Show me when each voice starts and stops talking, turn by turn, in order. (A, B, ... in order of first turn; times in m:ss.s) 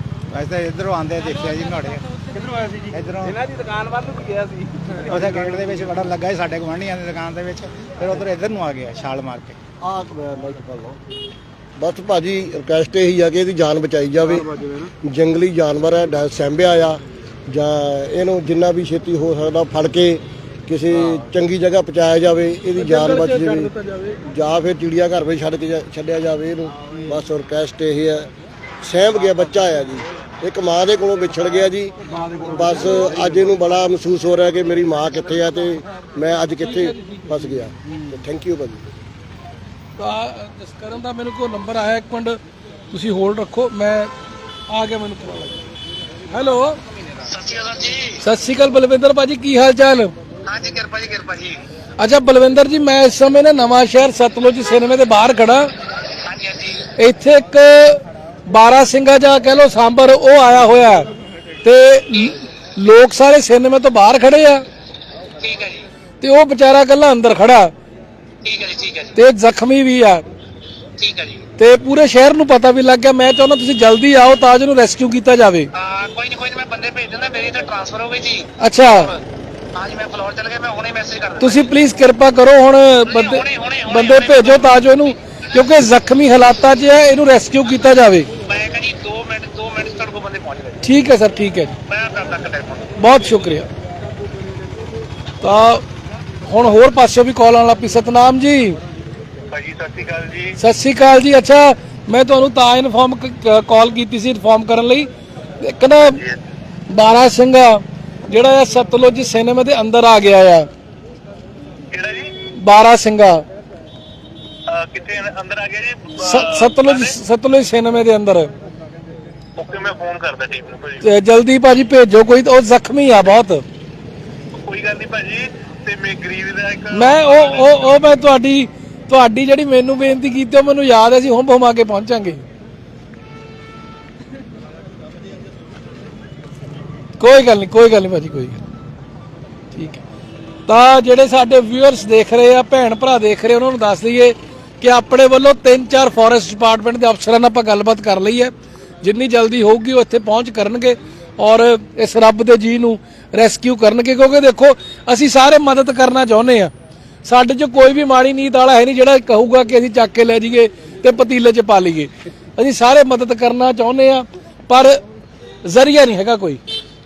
0:00.3-0:02.1 A
0:02.4-0:05.3 B
0:02.9-0:03.4 A
0:05.0-0:09.6 A
0:09.8-0:11.0 C
0:11.8-0:23.7 C
0:22.8-0:24.2 D
0:24.2-0:28.3 C
0:28.8-0:38.8 C
0:36.6-0:37.6 D
0:40.0-0:42.4 D
0:42.9-0:44.1 D
0:44.7-0:45.5 D
0:46.3-0:46.8 D
0:47.2-0:48.2 E
0:48.2-0:50.1 D
0:50.4-0:51.6 E
0:52.0-0:55.7 D
0:56.2-0:56.8 E
0:57.0-1:01.1 D
1:01.6-1:04.6 D
1:05.4-1:05.9 E
1:06.2-1:07.7 D
1:08.4-1:09.1 E
1:09.1-1:10.2 D
1:11.0-1:11.4 E
1:11.6-1:15.7 D
1:15.7-1:19.2 E
1:18.6-1:19.2 D
1:19.7-1:21.7 E
1:21.4-1:28.3 D
1:23.0-1:24.8 E
1:28.4-1:30.8 E
1:30.8-1:31.8 D
1:31.9-1:33.0 E
1:33.0-1:33.7 D
1:35.4-1:35.8 D
1:36.4-1:38.8 D
1:39.5-1:40.5 E
1:40.6-1:45.1 D
1:45.6-1:46.2 D
1:46.1-1:46.4 E
1:46.9-1:50.7 D
1:51.9-1:52.3 E
1:52.6-1:53.4 D
1:54.7-1:57.1 E
1:56.2-1:58.5 D
1:59.6-2:01.0 E
2:01.0-2:03.6 D
2:04.6-2:07.7 E
2:06.9-2:12.4 D
2:17.2-2:18.6 D
2:19.7-2:20.0 D
2:20.7-2:36.7 D
2:37.2-2:45.0 D
2:45.6-2:46.6 D